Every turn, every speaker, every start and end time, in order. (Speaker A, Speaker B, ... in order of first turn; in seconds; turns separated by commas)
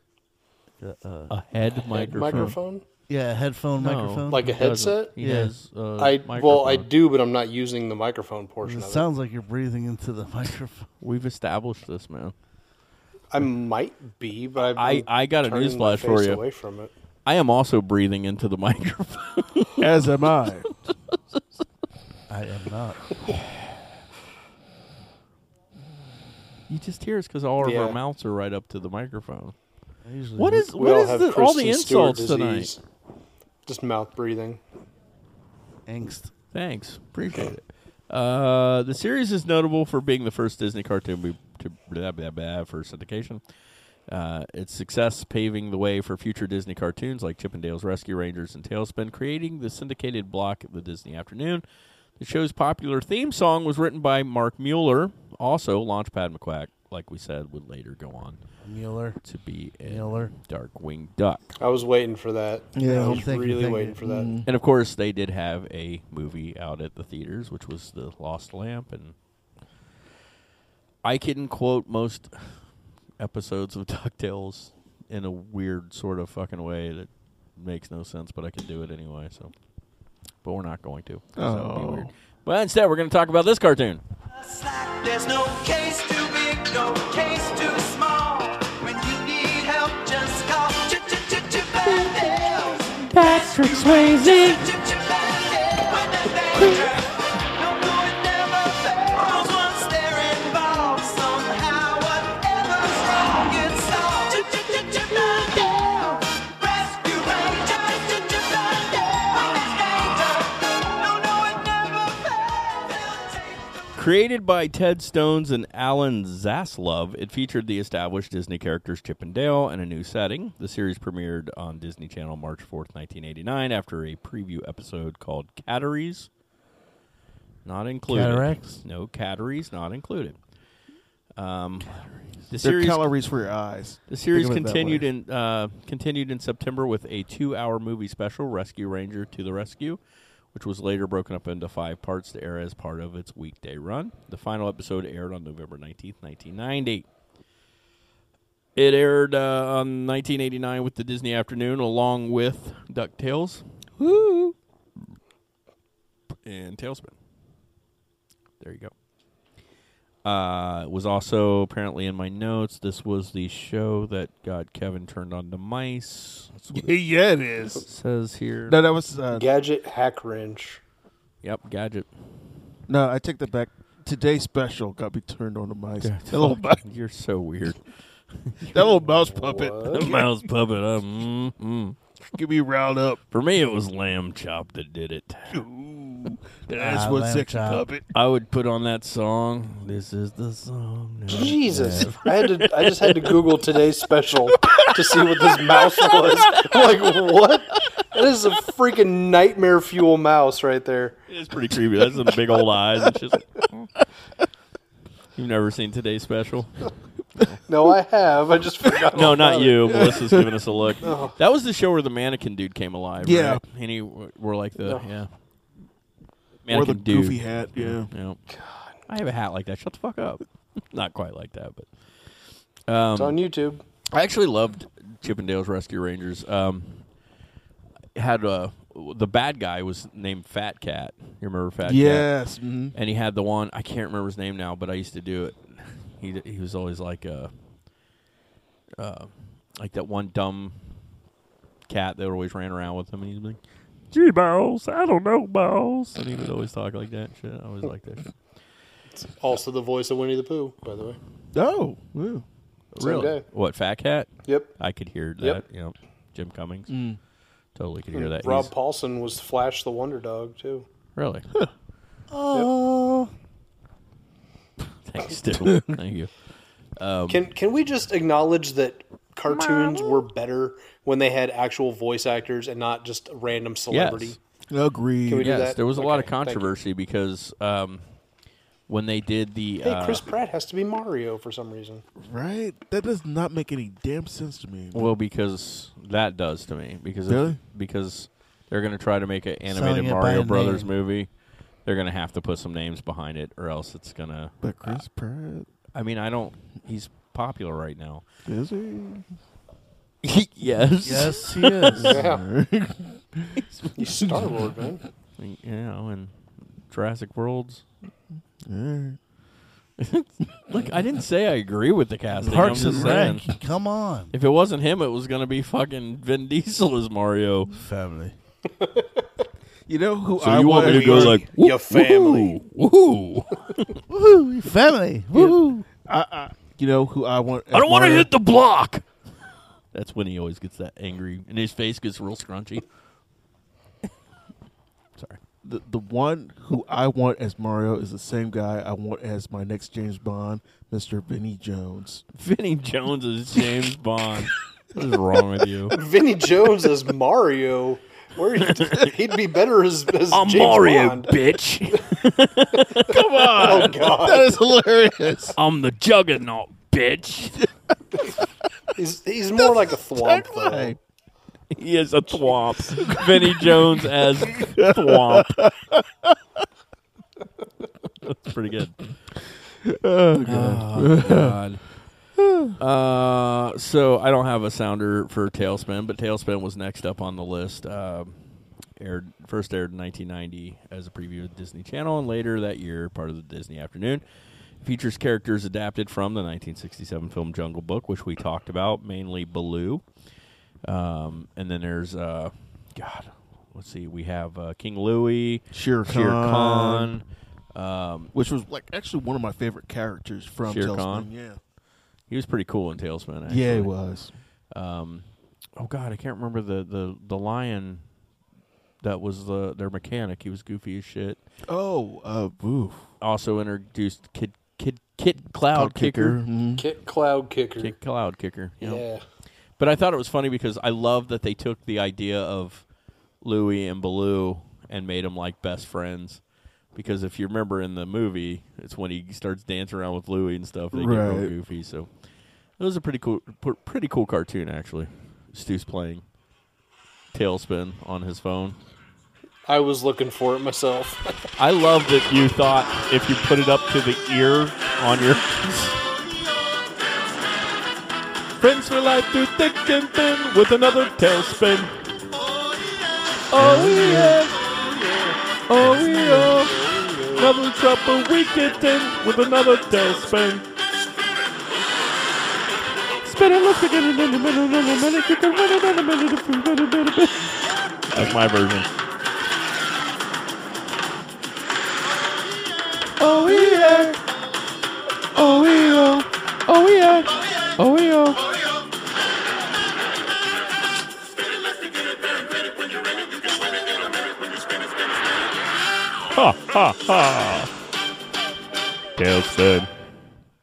Speaker A: 0.8-1.3, Speaker B: 1.3-2.6, Speaker C: 1.9-2.8, Speaker A: 3.1-4.5, Speaker B: 3.8-6.9, Speaker C: 4.3-5.1, Speaker A: 5.2-5.5, Speaker C: 6.0-9.1, Speaker A: 8.6-10.9, Speaker B: 11.0-12.3, Speaker C: 13.3-16.9, Speaker B: 14.8-16.4, Speaker B: 17.2-19.9, Speaker D: 19.8-20.7, Speaker B: 21.1-21.4, Speaker A: 22.3-23.1, Speaker B: 26.7-29.6, Speaker C: 27.6-28.0, Speaker A: 30.0-30.7, Speaker B: 30.4-32.7, Speaker C: 30.8-32.8, Speaker C: 33.7-34.6, Speaker A: 35.9-36.3, Speaker B: 36.5-43.4, Speaker B: 44.1-51.6, Speaker B: 52.2-58.4, Speaker A: 58.6-59.2, Speaker B: 59.2-61.5, Speaker A: 59.9-60.3, Speaker C: 61.6-64.3, Speaker D: 62.8-63.3, Speaker A: 62.8-64.0, Speaker D: 64.0-64.5, Speaker B: 64.5-69.2, Speaker B: 71.0-72.6, Speaker B: 73.2-79.5, Speaker B: 80.4-84.0, Speaker D: 81.4-82.1, Speaker E: 84.3-113.9, Speaker B: 93.1-94.6, Speaker B: 114.0-126.3, Speaker B: 127.7-130.4, Speaker A: 128.1-128.8, Speaker B: 131.4-133.1, Speaker D: 132.6-135.1, Speaker B: 134.1-140.0, Speaker B: 140.5-147.1, Speaker B: 148.8-153.7, Speaker D: 154.0-154.5, Speaker B: 156.4-157.2, Speaker B: 158.6-158.9, Speaker B: 160.2-167.0, Speaker D: 166.7-167.9, Speaker B: 167.8-168.8, Speaker D: 168.7-169.4, Speaker C: 169.3-170.8, Speaker B: 171.4-172.3, Speaker D: 172.9-176.8, Speaker B: 176.0-179.0, Speaker D: 178.6-180.3, Speaker C: 179.1-180.1, Speaker B: 179.9-182.0, Speaker D: 182.3-183.2, Speaker B: 183.3-185.6, Speaker D: 185.5-188.1, Speaker A: 186.8-187.8, Speaker B: 188.1-193.4, Speaker C: 191.3-201.2, Speaker B: 194.7-197.2, Speaker B: 201.3-203.9, Speaker B: 205.3-207.6, Speaker C: 207.7-210.0, Speaker B: 209.1-215.3, Speaker D: 209.9-210.5, Speaker C: 211.0-211.4, Speaker D: 213.2-213.6, Speaker B: 216.7-218.4, Speaker D: 216.7-218.1, Speaker C: 218.5-218.9, Speaker B: 219.1-221.9, Speaker B: 222.9-223.4, Speaker C: 223.2-223.8, Speaker B: 224.1-227.1, Speaker B: 228.2-232.3, Speaker D: 231.8-233.0, Speaker B: 232.9-237.5, Speaker B: 239.0-241.0, Speaker B: 241.9-243.6, Speaker B: 244.1-248.3, Speaker C: 249.1-251.2, Speaker D: 251.5-252.4, Speaker B: 252.9-256.9, Speaker C: 253.0-253.4, Speaker C: 254.5-254.7, Speaker D: 256.9-257.2, Speaker B: 257.8-258.7, Speaker C: 258.1-260.9, Speaker B: 261.2-261.5, Speaker A: 262.3-263.3, Speaker B: 265.1-266.3, Speaker D: 265.7-265.9, Speaker B: 267.0-267.4, Speaker C: 267.3-274.4, Speaker B: 269.5-270.1, Speaker B: 273.9-274.4, Speaker D: 274.7-275.5, Speaker C: 275.3-276.7, Speaker B: 275.3-278.1, Speaker B: 278.9-280.2, Speaker C: 279.8-282.0, Speaker D: 282.2-285.1, Speaker B: 284.9-291.3, Speaker D: 287.3-287.6, Speaker A: 289.7-290.9, Speaker B: 291.8-295.0, Speaker D: 294.6-295.7, Speaker B: 295.9-298.3, Speaker D: 298.5-299.3, Speaker B: 300.2-302.1, Speaker A: 301.0-302.2, Speaker D: 301.9-303.6, Speaker C: 302.0-302.5, Speaker B: 303.6-303.9, Speaker C: 304.0-305.0, Speaker B: 305.4-306.4, Speaker B: 306.9-307.8, Speaker D: 308.6-309.2, Speaker B: 310.0-313.5, Speaker D: 312.4-313.3, Speaker A: 312.5-314.3, Speaker B: 314.3-317.7, Speaker A: 317.8-318.3, Speaker C: 318.8-319.2, Speaker D: 319.9-321.5, Speaker B: 320.4-323.9, Speaker C: 320.9-322.6, Speaker A: 324.1-325.9, Speaker D: 325.4-328.3, Speaker B: 327.7-329.1, Speaker B: 329.9-332.9, Speaker D: 335.6-342.2, Speaker B: 342.4-346.0, Speaker C: 345.9-351.4, Speaker B: 348.8-349.1, Speaker B: 350.3-353.9, Speaker D: 353.1-355.6, Speaker C: 353.6-354.6, Speaker B: 355.6-357.6, Speaker C: 358.9-361.0, Speaker D: 360.1-361.0, Speaker B: 361.7-365.5, Speaker D: 363.0-363.9, Speaker D: 364.5-366.3, Speaker B: 368.2-369.1, Speaker D: 369.8-371.6, Speaker B: 370.4-372.0, Speaker D: 372.4-372.7, Speaker B: 372.8-384.2, Speaker B: 384.8-390.0, Speaker B: 390.9-398.3, Speaker D: 395.7-397.1, Speaker D: 398.3-401.6, Speaker B: 400.6-401.3, Speaker B: 402.3-403.9, Speaker D: 403.5-404.3, Speaker B: 404.7-408.0, Speaker B: 409.0-411.4, Speaker D: 411.7-413.0, Speaker B: 413.2-416.4, Speaker D: 415.7-416.9, Speaker C: 416.8-418.0, Speaker B: 417.8-419.0, Speaker C: 418.8-419.2, Speaker B: 419.8-422.9, Speaker B: 423.4-426.4, Speaker B: 426.9-432.1, Speaker D: 430.9-431.5, Speaker B: 432.8-436.2, Speaker B: 437.3-438.8, Speaker C: 439.7-441.3, Speaker B: 441.6-446.0, Speaker B: 448.6-452.0, Speaker B: 453.5-454.6, Speaker D: 453.6-454.4, Speaker C: 454.8-455.4, Speaker B: 455.7-456.8, Speaker D: 455.9-456.3, Speaker C: 456.2-457.6, Speaker B: 457.3-460.7, Speaker B: 463.2-467.6, Speaker B: 468.1-468.9, Speaker B: 473.2-474.2, Speaker B: 475.3-478.4, Speaker B: 486.3-487.7, Speaker B: 489.2-489.9